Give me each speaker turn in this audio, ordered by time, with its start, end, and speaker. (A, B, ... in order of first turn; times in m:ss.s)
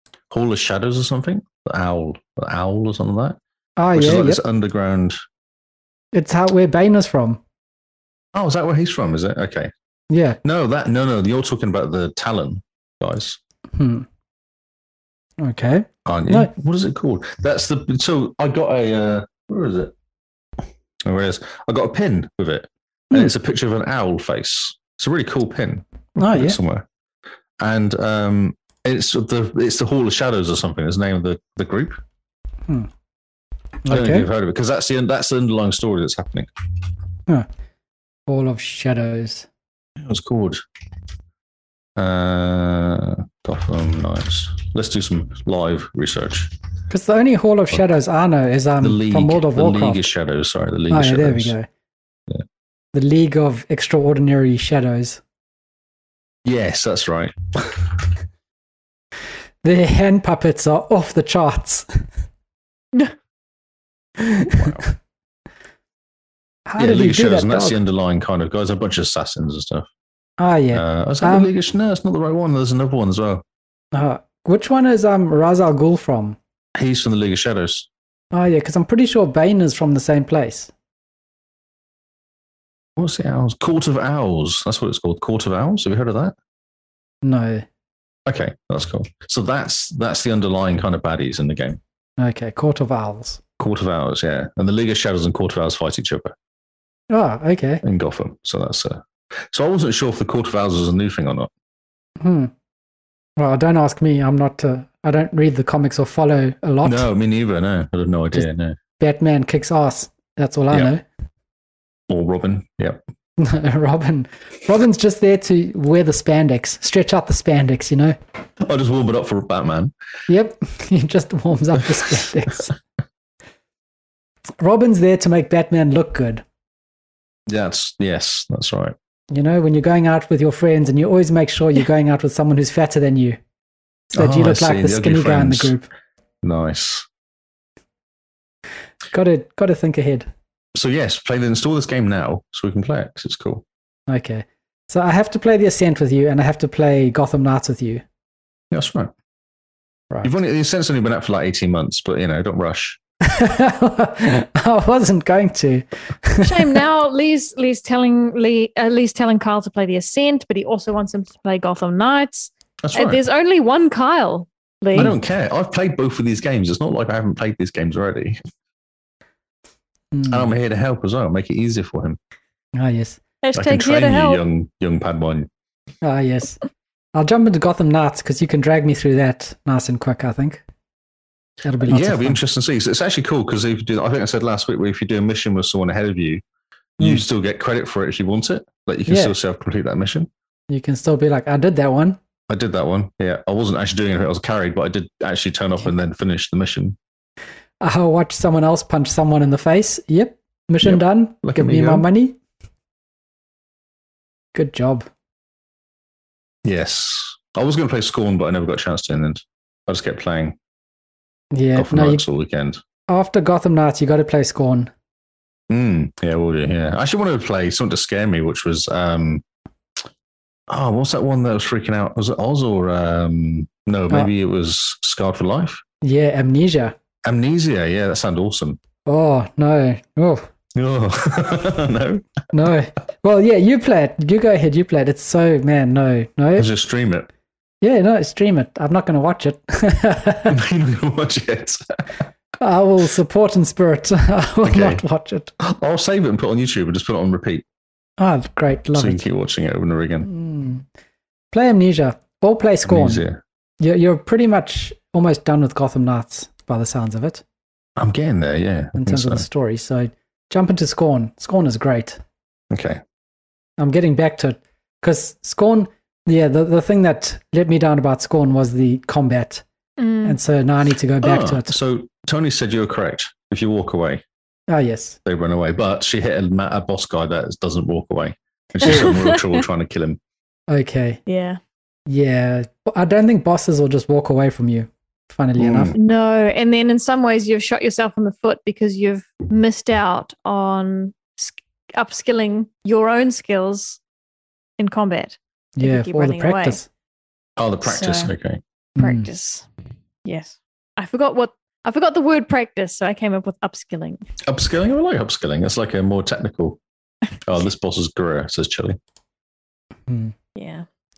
0:00.3-0:03.4 A
0:03.8-0:04.4 B
0:03.9-0:05.2 A
0:06.1-0:07.4 B
0:08.3-0:09.7 A
0:10.1-0:10.4 B
0:10.4-0:13.4 A
0:13.8-0:14.1 B
0:15.4-0:16.5 B
0:16.1-0:19.9 A
0:21.0-0:26.9 A
0:26.2-0:26.6 B
0:27.6-0:32.0 A
0:33.8-0:34.3 B
0:33.9-0:36.5 A
0:38.3-0:39.5 B
0:40.0-0:40.6 A
0:42.0-0:46.5 A
0:46.9-0:50.1 B
0:48.8-0:51.6 A
0:50.9-0:51.7 B
0:52.9-0:55.2 B
0:56.4-0:58.0 A
0:59.6-1:01.9 B
1:04.3-1:04.6 B
1:04.5-1:04.8 A
1:06.7-1:07.8 B
1:06.8-1:09.9 A
1:10.4-1:11.5 B
1:10.7-1:13.4 A
1:13.9-1:16.4 B
1:16.8-1:17.9 A
1:18.3-1:20.7 B
1:23.0-1:26.4 A
1:27.2-1:27.7 B
1:28.3-1:31.8 A
1:32.2-1:33.4 B
1:33.6-1:36.4 A
1:37.1-1:37.8 B
1:37.8-1:41.5 A
1:42.2-1:42.5 B
1:43.4-1:47.1 B
1:46.8-1:48.8 A
1:49.0-1:51.0 B
1:52.1-1:53.0 A
1:53.4-1:58.2 B
1:58.6-1:59.9 A
2:00.3-2:02.7 B
2:04.6-2:06.4 B
2:07.5-2:09.0 A
2:09.3-2:13.4 B
2:14.1-2:15.9 B
2:14.1-2:15.8 A
2:16.4-2:17.1 A
2:19.1-2:20.3 B
2:20.8-2:23.6 A
2:24.1-2:28.0 B
2:28.7-2:29.1 A
2:30.2-2:33.0 A
2:33.2-2:36.8 B
2:36.4-2:45.1 C
2:42.8-2:43.2 A
2:44.9-2:48.4 A
2:50.1-2:50.5 B
2:50.3-2:52.2 A
2:52.8-2:53.2 B
2:53.4-2:54.4 C
2:53.5-2:55.5 A
2:56.0-2:56.6 B
2:57.2-3:00.6 B
3:01.6-3:02.4 B
3:01.8-3:06.4 A
3:07.0-3:10.3 A
3:09.1-3:09.3 B
3:10.7-3:12.2 B
3:12.5-3:17.0 A
3:17.8-3:22.4 B
3:20.8-3:22.1 A
3:24.5-3:25.1 B
3:26.6-3:30.6 A
3:31.5-3:32.2 B
3:31.8-3:32.8 A
3:33.1-3:34.9 B
3:35.7-3:39.4 A
3:40.7-3:45.8 A
3:46.0-3:47.0 B
3:47.2-3:48.8 A
3:49.1-3:50.5 B
3:50.8-3:52.3 A
3:52.5-3:56.7 B
3:56.6-3:57.3 A
3:57.8-4:00.6 B
4:00.5-4:02.2 A
4:02.6-4:05.5 B
4:04.6-4:05.0 A
4:05.6-4:07.6 A
4:08.2-4:09.2 B
4:09.0-4:10.3 A
4:10.2-4:10.8 B
4:11.5-4:13.2 B
4:12.8-4:13.4 A
4:13.8-4:17.4 B
4:18.0-4:19.4 A
4:19.0-4:22.2 B
4:22.7-4:23.0 A
4:23.8-4:29.6 B
4:30.0-4:30.4 C
4:30.2-4:31.7 B
4:31.2-4:34.2 A
4:34.7-4:35.2 B
4:35.2-4:40.2 A
4:38.9-4:39.4 C
4:40.7-4:41.2 B
4:41.3-4:41.6 C
4:42.1-4:46.0 B
4:45.6-4:46.0 A
4:46.0-4:54.0 C
4:54.8-4:56.8 C
4:55.8-4:56.9 B
4:57.6-4:58.6 A
4:57.8-4:58.3 C
4:59.0-4:59.3 B
4:59.0-4:59.7 C
5:00.2-5:04.2 C
5:04.5-5:06.8 A
5:07.4-5:09.0 A
5:10.1-5:10.3 B
5:10.6-5:10.9 C